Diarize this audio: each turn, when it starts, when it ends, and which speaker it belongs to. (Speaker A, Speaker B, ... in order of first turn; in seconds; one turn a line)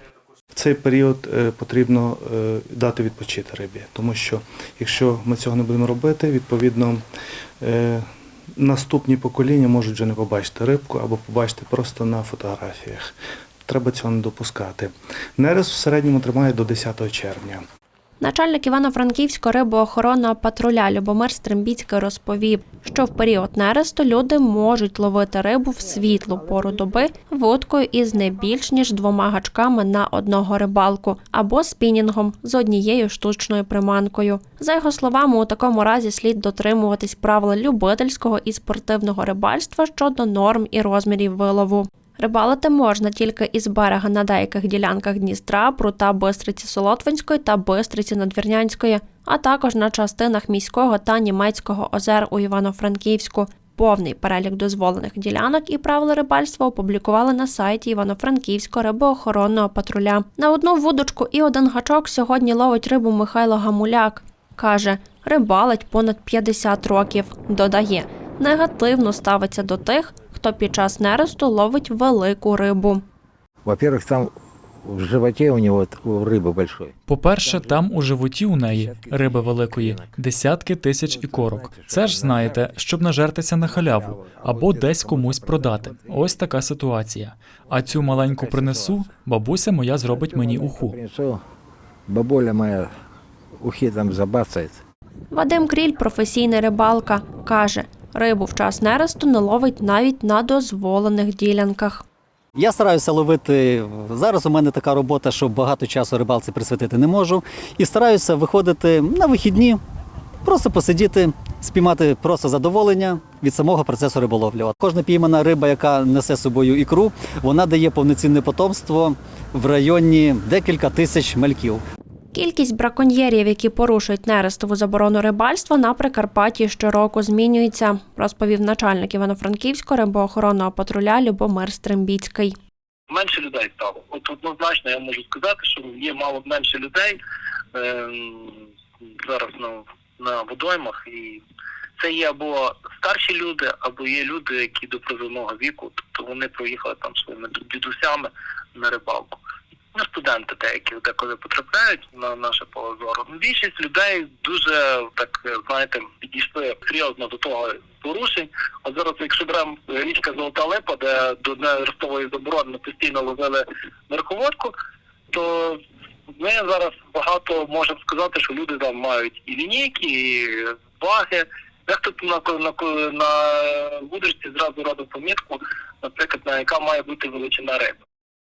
Speaker A: 0.5-7.0
Speaker A: 7.6-13.1
Speaker A: 13.7-17.6
Speaker B: 18.2-73.0
Speaker C: 73.6-77.9
Speaker D: 77.1-91.0
Speaker C: 78.6-80.2
Speaker C: 81.1-82.9
Speaker C: 83.6-86.4
Speaker C: 88.2-89.1
Speaker C: 90.1-91.4
Speaker C: 92.1-92.9
Speaker C: 93.6-94.8
Speaker B: 95.3-102.0
Speaker E: 102.6-109.8
Speaker E: 110.4-121.8
Speaker B: 122.3-132.6
Speaker F: 133.1-137.2
Speaker F: 137.7-141.4
Speaker F: 142.0-149.4
Speaker F: 149.9-164.7
Speaker F: 165.3-165.8
Speaker F: 166.4-178.0